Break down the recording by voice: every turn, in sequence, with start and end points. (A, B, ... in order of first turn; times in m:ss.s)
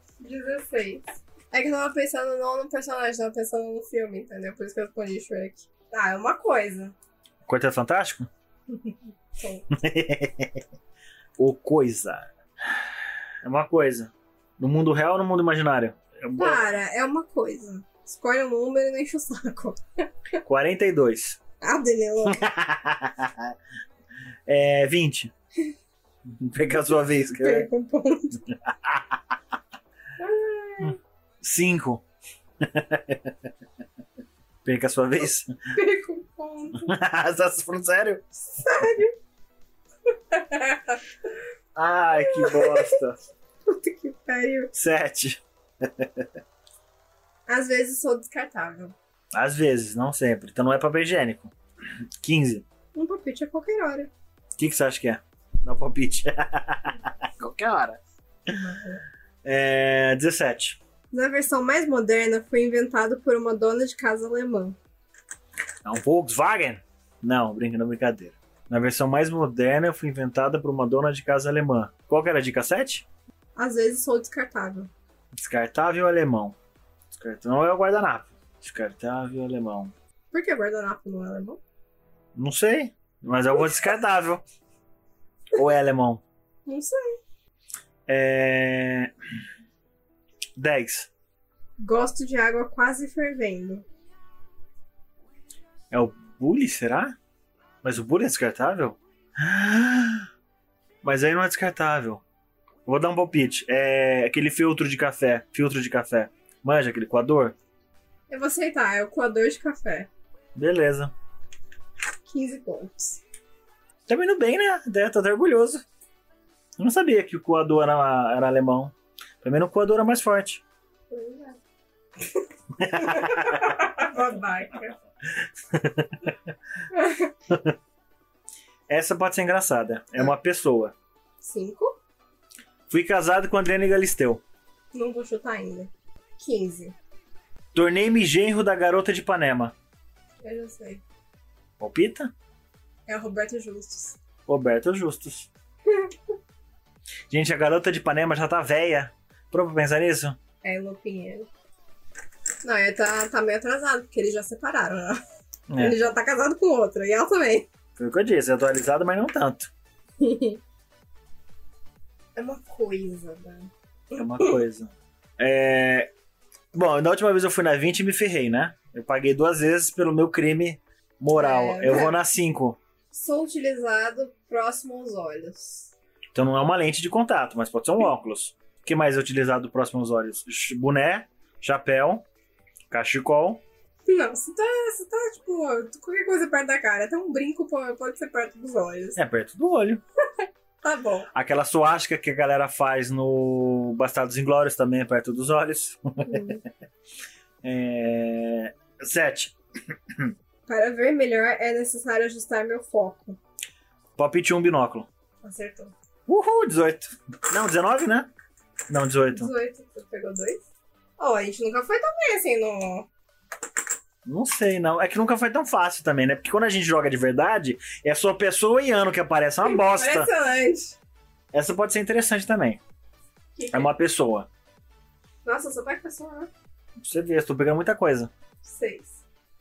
0:00.2-0:07.0 A
0:07.4-0:08.3 B
0:08.7-0:09.7 A
0:09.7-0:10.6 B
0:11.4-0:12.8 B
0:13.4-0:16.7 B
0:16.4-0:20.0 A
0:20.4-0:21.4 B
0:21.6-0:22.5 A
0:22.3-0:23.5 B
0:24.5-0:25.3 B
0:26.3-0:27.7 B
0:27.4-0:28.4 A
0:28.7-0:29.2 B
0:30.2-0:31.0 A
0:31.4-0:32.0 B
0:32.6-0:33.3 B
0:34.6-0:35.5 B
0:35.7-0:36.9 A
0:36.8-0:38.3 B
0:38.5-0:39.1 A
0:40.3-0:41.0 A
0:41.8-0:43.2 B
0:42.2-0:43.0 A
0:43.7-0:44.7 A
0:44.7-0:46.3 B
0:47.5-0:48.9 A
0:49.3-0:51.5 B
0:52.2-0:52.6 B
0:53.0-0:54.1 A
0:54.6-0:58.0 B
0:58.5-0:59.0 A
0:59.4-1:00.8 B
1:01.1-1:04.8 A
1:05.8-1:13.0 B
1:13.6-1:14.9 A
1:15.3-1:16.6 B
1:17.1-1:19.9 B
1:20.3-1:21.6 A
1:22.4-1:24.4 B
1:25.5-1:26.2 B
1:26.7-1:27.2 A
1:28.1-1:29.1 B
1:30.6-1:31.1 B
1:31.8-1:33.8 A
1:35.9-1:37.2 B
1:37.8-1:40.3 B
1:41.0-1:42.2 B
1:42.9-1:47.6 B
1:48.3-1:50.1 A
1:50.6-1:51.1 B
1:52.3-1:53.2 A
1:54.1-1:55.8 B
1:56.8-2:00.6 B
2:01.1-2:01.6 A
2:02.2-2:05.0 A
2:02.8-2:04.2 B
2:05.4-2:06.3 B
2:06.9-2:07.3 A
2:07.5-2:07.8 B
2:08.9-2:10.9 B
2:11.4-2:12.0 A
2:12.9-2:14.4 B
2:14.9-2:17.0 A
2:17.7-2:19.7 B
2:20.4-2:21.0 A
2:21.8-2:22.3 B
2:23.1-2:24.2 A
2:24.5-2:25.5 B
2:27.3-2:30.4 B
2:30.6-2:31.5 A
2:32.6-2:35.2 A
2:35.7-2:36.0 B
2:35.8-2:37.7 A
2:38.0-2:39.7 B
2:40.2-2:40.6 A
2:42.4-2:44.6 A
2:44.2-2:46.1 B
2:46.7-2:52.8 B
2:51.3-2:52.2 A
2:53.1-2:55.9 A
2:56.3-3:02.3 B
3:02.9-3:03.6 B
3:04.1-3:09.2 A
3:09.2-3:10.0 B
3:10.8-3:11.3 A
3:11.3-3:16.6 B
3:16.2-3:16.6 A
3:17.6-3:19.6 B
3:20.7-3:23.4 A
3:24.2-3:25.1 B
3:25.4-3:25.9 A
3:26.3-3:28.3 B
3:28.9-3:29.5 B
3:29.3-3:30.6 A
3:31.2-3:33.1 A
3:34.2-3:40.3 B
3:39.6-3:41.0 A
3:41.5-3:42.8 B
3:43.6-3:43.9 A
3:43.7-3:44.5 B
3:45.4-3:46.5 A
3:47.0-3:48.3 B
3:48.6-3:49.2 A